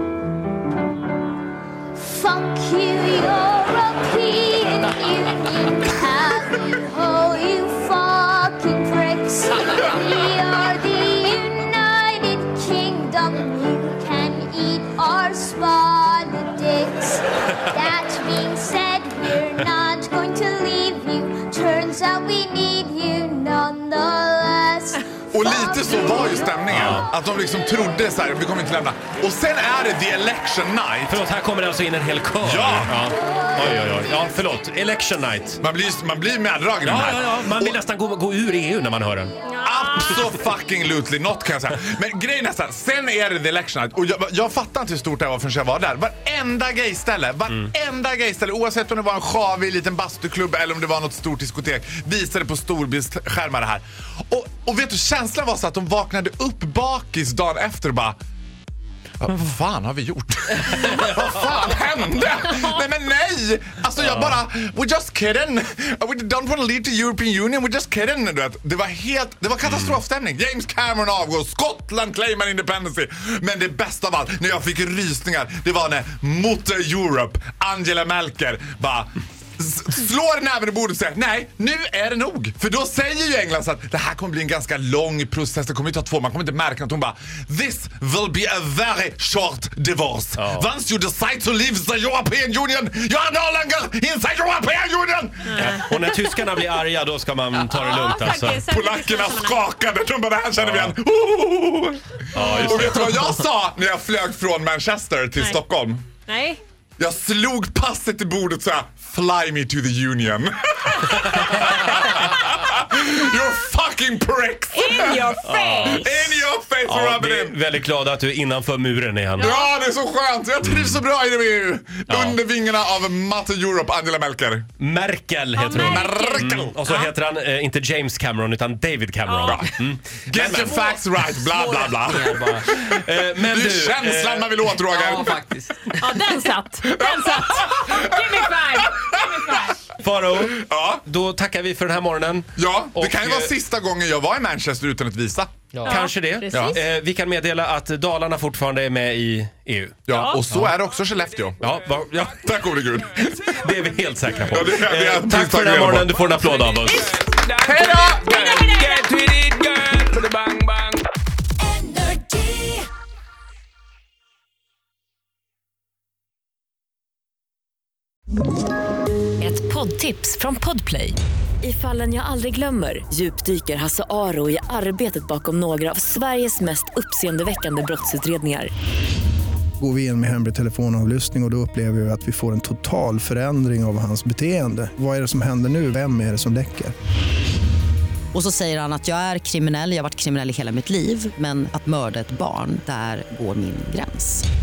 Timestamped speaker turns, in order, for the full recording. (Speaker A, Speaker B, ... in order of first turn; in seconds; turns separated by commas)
Speaker A: 2.0-26.5, Speaker B: 25.3-31.2, Speaker C: 26.7-27.1, Speaker C: 31.1-35.6, Speaker B: 32.4-33.0, Speaker B: 35.6-37.8, Speaker C: 36.8-39.3, Speaker D: 39.4-40.3, Speaker B: 39.6-58.2, Speaker B: 59.2-95.8, Speaker C: 90.4-90.7, Speaker D: 95.5-96.4, Speaker C: 95.6-98.7, Speaker D: 97.5-99.6, Speaker B: 97.8-106.0, Speaker C: 100.6-101.0, Speaker C: 102.3-103.2, Speaker D: 102.4-102.9, Speaker D: 106.3-106.6, Speaker B: 107.0-117.6, Speaker D: 114.7-116.2, Speaker C: 115.4-116.1, Speaker C: 116.9-119.5, Speaker D: 119.4-119.7, Speaker B: 119.4-124.7, Speaker C: 122.1-122.4, Speaker C: 124.8-130.9, Speaker D: 125.5-127.1, Speaker B: 125.7-126.8, Speaker D: 129.2-129.7, Speaker B: 130.3-135.4, Speaker E: 131.5-132.6, Speaker C: 132.5-134.8, Speaker E: 134.9-136.2, Speaker D: 136.0-139.9, Speaker B: 136.8-139.7, Speaker C: 140.0-143.5, Speaker B: 140.5-141.0, Speaker B: 142.6-145.5, Speaker E: 145.7-146.1, Speaker D: 145.8-146.8, Speaker C: 145.8-150.0, Speaker B: 146.5-146.8, Speaker B: 150.1-151.7, Speaker D: 150.1-150.4, Speaker C: 151.6-152.4, Speaker B: 152.4-153.6, Speaker C: 153.5-157.2, Speaker B: 154.5-156.1, Speaker D: 156.9-159.1, Speaker B: 157.7-158.7, Speaker E: 158.8-161.0, Speaker F: 169.4-178.7, Speaker G: 179.8-186.9, Speaker H: 188.3-194.5